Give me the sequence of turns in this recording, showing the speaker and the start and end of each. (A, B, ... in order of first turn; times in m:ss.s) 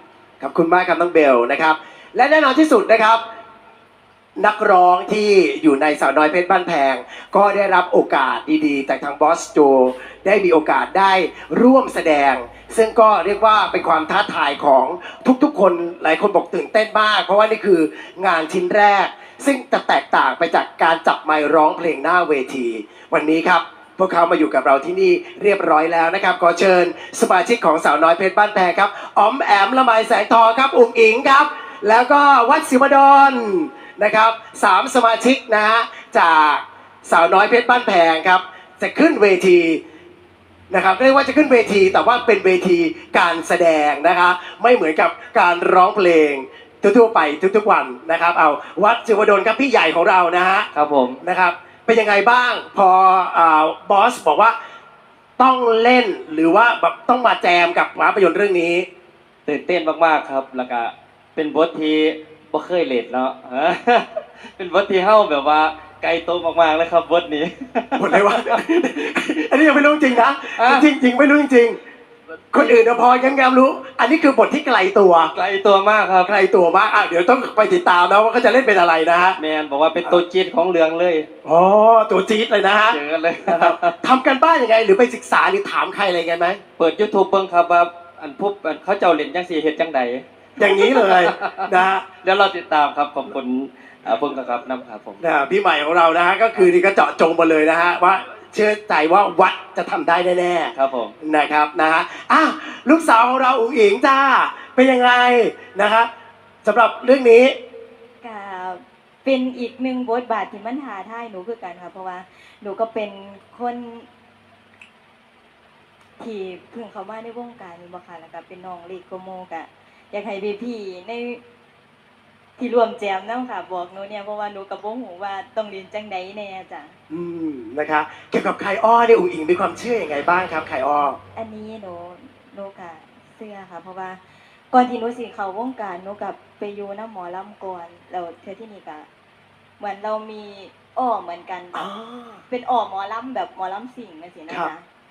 0:00.4-0:03.2 A
0:04.4-0:39.8 A
0:40.7-0:50.7 A
0:50.8-0:51.2 B
0:51.2-0:54.6 A
0:55.4-0:58.9 A
0:59.5-1:08.6 B
1:08.0-1:11.8 A
1:12.5-1:15.3 A
1:12.5-1:12.8 B
1:15.4-1:16.3 B
1:16.2-1:19.4 A
1:19.4-1:21.3 B
1:21.4-1:26.6 A
1:22.9-1:23.9 B
1:26.8-1:31.6 B
1:30.6-1:32.0 A
1:32.2-1:35.2 B
1:35.2-1:46.1 A
1:40.8-1:41.1 B
1:46.6-1:47.6 A
1:48.2-1:54.1 C
1:56.2-2:01.4 C
2:02.6-2:07.0 C
2:07.1-2:11.2 A
2:11.4-2:19.1 C
2:19.8-2:21.9 C
2:21.7-2:22.4 A
2:22.5-2:24.8 C